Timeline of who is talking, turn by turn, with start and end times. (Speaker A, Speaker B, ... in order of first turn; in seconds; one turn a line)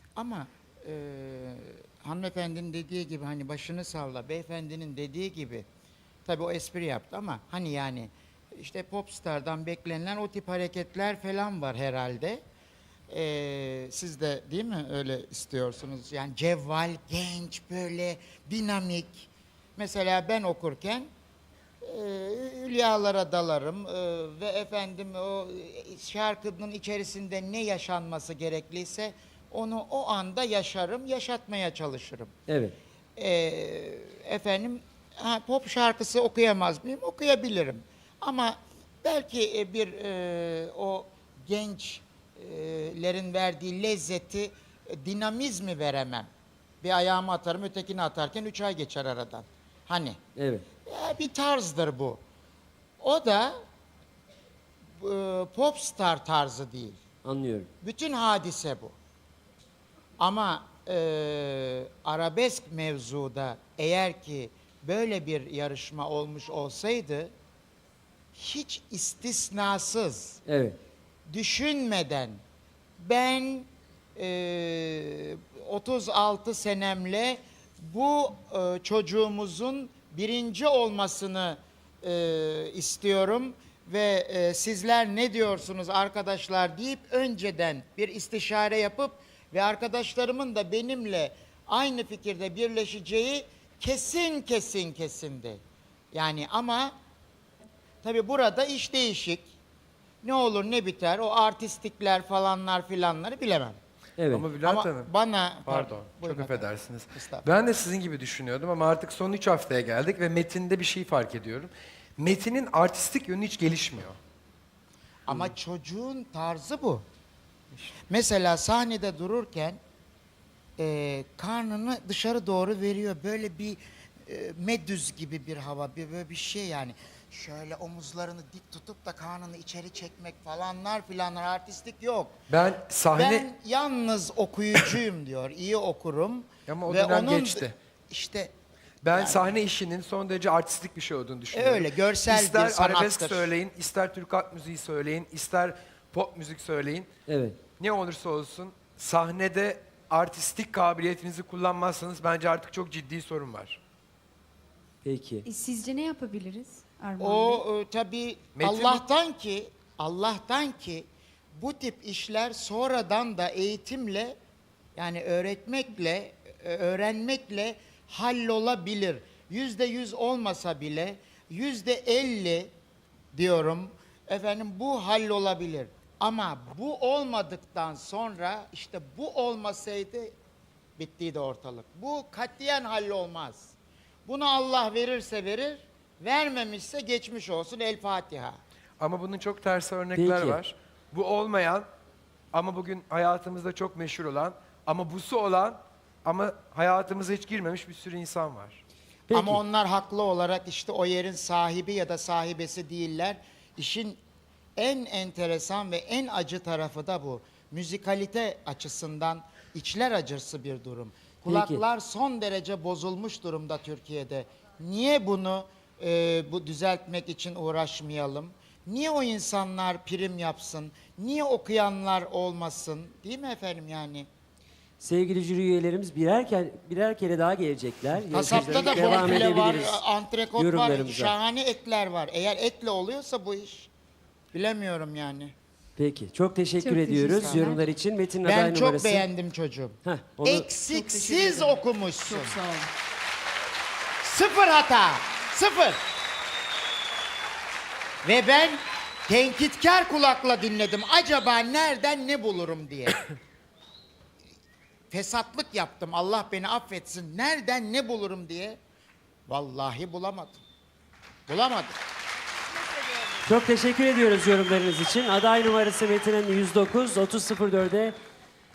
Speaker A: 0.2-5.7
Speaker A: 6.2-12.4
Speaker A: 13.1-21.1
Speaker A: 21.8-32.3
Speaker B: 32.5-32.8
Speaker A: 33.2-46.3
Speaker A: 46.8-50.2
Speaker B: 50.4-50.6
Speaker A: 50.9-52.2
Speaker A: 53.0-53.5
Speaker A: 55.0-57.0
Speaker B: 57.2-57.7
Speaker A: 57.8-59.0
Speaker A: 60.2-67.3
Speaker A: 68.3-70.4
Speaker B: 70.5-70.8
Speaker A: 71.3-72.4
Speaker A: 73.0-95.6
Speaker A: 96.1-97.0
Speaker A: 98.0-99.5
Speaker A: 100.2-103.8
Speaker B: 104.2-104.5
Speaker C: 104.3-105.1
Speaker A: 104.6-107.5
Speaker C: 105.7-114.2
Speaker A: 115.3-117.0
Speaker A: 118.1-119.8
Speaker A: 120.8-132.4
Speaker C: 132.5-133.5
Speaker A: 133.1-138.5
Speaker C: 136.7-137.7
Speaker C: 139.0-147.1
Speaker A: 139.1-139.5
Speaker A: 141.5-143.5
Speaker B: 147.3-147.6
Speaker C: 147.8-153.8
Speaker B: 155.0-155.5
Speaker D: 155.5-157.6
Speaker A: 157.2-164.3
Speaker C: 158.6-159.0
Speaker A: 165.0-172.7
Speaker A: 173.3-180.3
Speaker A: 181.0-183.8
Speaker A: 184.3-188.6
Speaker C: 189.0-191.9
Speaker B: 190.2-190.6
Speaker C: 192.5-198.8
Speaker B: 199.3-199.6
Speaker A: 199.3-204.2
Speaker A: 204.8-224.3
Speaker B: 211.5-211.8
Speaker B: 225.0-230.0
Speaker A: 228.3-233.9
Speaker D: 228.8-229.2
Speaker B: 230.6-231.3
Speaker A: 234.5-235.5
Speaker B: 236.0-239.3
Speaker D: 236.8-237.8
Speaker A: 237.4-237.7
Speaker A: 238.4-242.6
Speaker B: 240.0-240.7
Speaker E: 240.8-242.9
Speaker A: 244.2-246.0
Speaker A: 248.2-253.2
Speaker A: 255.1-258.8
Speaker A: 259.5-260.6
Speaker A: 261.5-261.9
Speaker B: 263.4-268.2